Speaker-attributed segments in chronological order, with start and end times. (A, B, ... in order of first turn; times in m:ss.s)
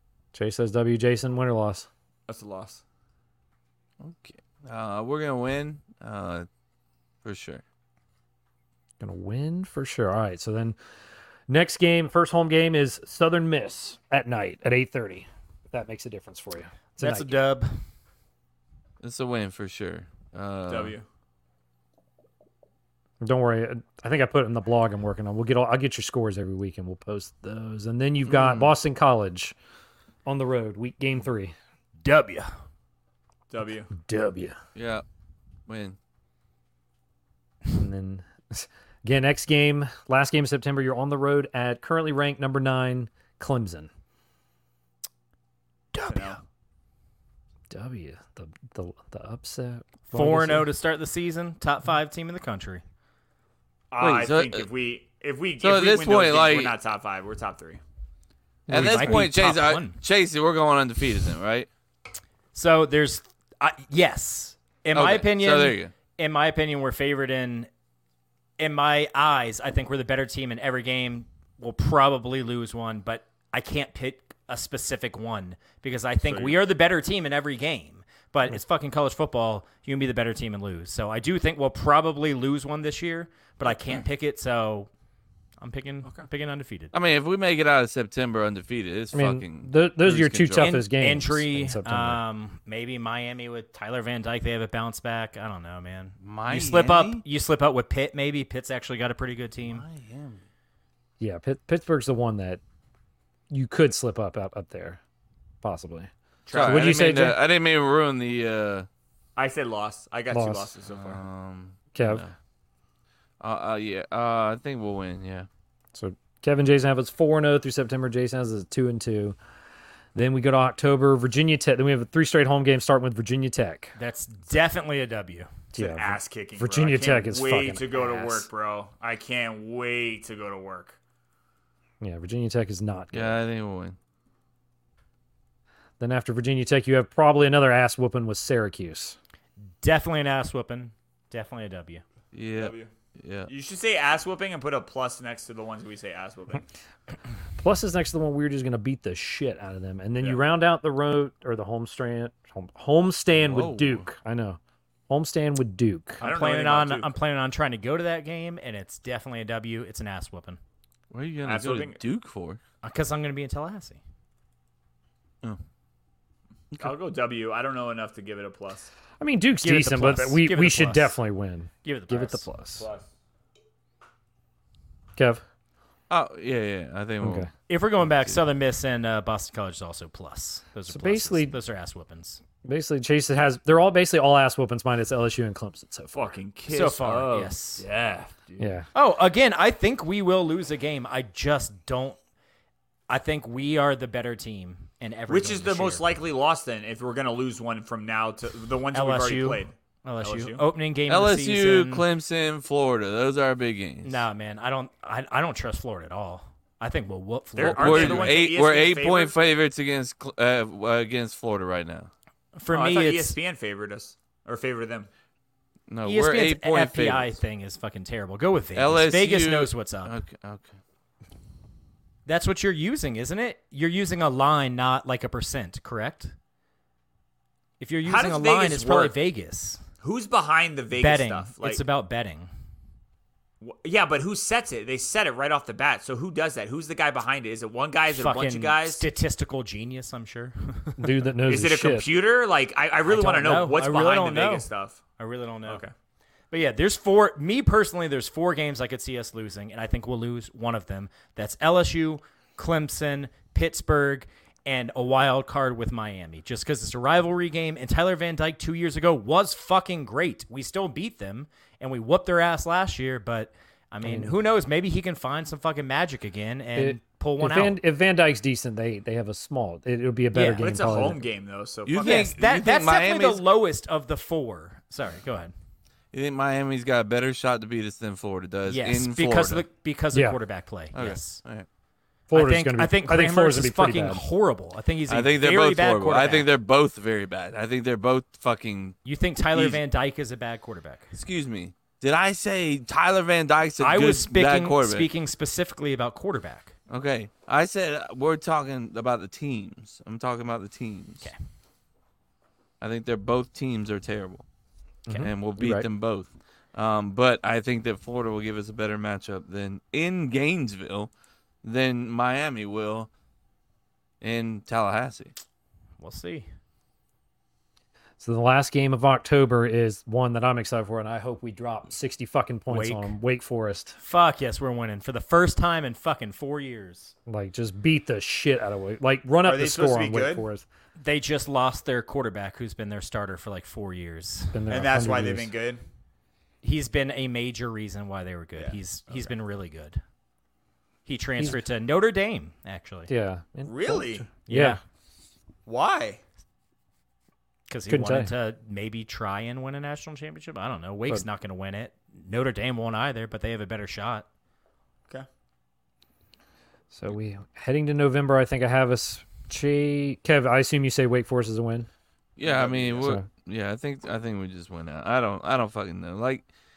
0:00.3-0:01.9 A
0:02.3-0:02.8 B
0:04.0-0:06.5 C
0:07.2-0:07.6 C
0:09.0-0:10.8 A
0:11.5-0:17.4 A
0:17.0-0:17.7 D
0:19.0-0:21.0 C
0:20.7-0:21.0 B
0:23.2-0:29.6 A
0:28.3-0:28.7 C
0:30.3-0:31.6 A
0:32.0-0:32.5 D
0:33.5-0:33.9 B
0:33.9-0:34.6 A
0:34.8-0:35.0 C
0:35.7-0:36.0 C
0:37.7-0:43.9 A
0:45.9-0:46.4 D
0:46.1-0:46.4 B
0:47.7-0:50.7 A
0:50.1-0:52.8 D
0:53.9-0:57.8 B
0:54.0-0:54.7 C
0:55.6-0:56.8 C
0:58.7-0:59.3 A
0:58.7-1:00.0 D
0:58.7-1:01.7 C
1:02.5-1:07.7 D
1:04.9-1:05.9 C
1:08.6-1:24.9 D
1:16.3-1:16.6 B
1:23.6-1:24.0 B
1:25.6-1:26.9 D
1:26.9-1:30.8 C
1:29.1-1:32.2 A
1:30.6-1:39.8 D
1:36.2-1:37.2 C
1:39.6-1:40.4 C
1:41.2-1:42.6 A
1:43.5-1:45.0 A
1:45.6-1:47.4 A
1:46.5-1:47.2 B
1:46.5-1:48.9 C
1:49.4-1:51.2 B
1:50.3-1:50.7 A
1:51.0-1:52.3 C
1:52.0-1:52.2 A
1:53.4-1:55.5 C
1:55.9-1:59.4 A
2:00.2-2:03.9 A
2:04.0-2:05.5 D
2:05.7-2:08.4 A
2:05.8-2:11.0 B
2:12.0-2:13.4 A
2:13.1-2:14.0 C
2:16.0-2:19.2 A
2:19.8-2:22.0 D
2:22.3-2:23.5 C
2:22.6-2:22.9 B
2:23.5-2:26.7 B
2:27.6-2:36.2 A
2:33.3-2:34.1 C
2:36.2-2:40.6 D
2:36.2-2:37.1 B
2:41.1-2:42.6 C
2:41.5-2:42.0 B
2:42.8-2:44.0 D
2:46.8-2:48.9 B
2:49.2-2:52.9 A
2:49.6-2:51.2 D
2:51.8-2:52.5 D
2:52.8-2:53.1 B
2:55.2-2:55.4 A
2:56.1-2:57.5 C
2:57.2-2:57.5 A
2:57.7-3:02.4 D
2:58.0-2:58.4 C
3:00.9-3:01.5 A
3:02.6-3:06.2 A
3:06.1-3:08.7 B
3:06.7-3:07.8 D
3:08.6-3:08.9 A
3:08.9-3:12.2 D
3:13.1-3:16.1 D
3:15.3-3:20.6 B
3:18.9-3:22.1 D
3:21.1-3:24.2 C
3:24.0-3:28.4 D
3:27.6-3:29.4 B
3:27.6-3:32.1 C
3:32.6-3:33.4 D
3:32.7-3:35.1 B
3:35.9-3:37.4 C
3:36.0-3:40.2 D
3:38.8-3:40.7 C
3:42.3-3:46.4 D
3:47.8-3:49.8 D
3:48.0-3:49.2 B
3:50.0-3:51.8 B
3:51.0-3:52.5 D
3:53.6-3:59.1 B
3:58.1-4:01.1 D
4:01.0-4:02.1 A
4:01.5-4:05.0 B
4:03.1-4:04.7 D
4:05.2-4:05.8 D
4:05.7-4:05.9 B
4:06.5-4:27.8 D
4:24.0-4:24.4 A
4:26.8-4:31.2 A
4:30.3-4:30.8 D
4:30.6-4:32.3 B
4:31.9-4:33.4 C
4:32.0-4:35.5 D
4:36.1-4:39.6 C
4:38.7-4:41.4 D
4:40.9-4:41.7 C
4:42.3-4:44.2 A
4:42.3-4:46.5 D
4:45.1-4:49.0 C
4:49.0-4:51.2 D
4:49.5-4:49.8 C
4:51.2-4:55.1 C
4:53.8-4:56.8 D
4:56.9-5:01.2 C
5:02.8-5:04.4 C
5:05.1-5:05.9 A
5:05.2-5:11.1 C
5:11.6-5:13.1 C
5:14.2-5:15.3 C
5:16.0-5:16.5 D
5:18.2-5:24.0 A
5:22.7-5:23.1 D
5:24.0-5:27.1 D
5:27.3-5:30.7 A
5:29.4-5:30.5 B
5:31.0-5:34.7 D
5:34.5-5:35.5 A
5:34.7-5:35.8 B
5:36.6-5:40.0 D
5:41.1-5:43.1 D
5:41.4-5:41.6 A
5:43.1-5:44.8 A
5:43.6-5:44.3 B
5:44.5-5:44.8 D
5:45.7-5:46.2 B
5:47.7-5:54.3 D
5:47.9-5:48.3 A
5:56.9-6:01.9 A
6:02.4-6:06.4 C
6:02.4-6:03.2 B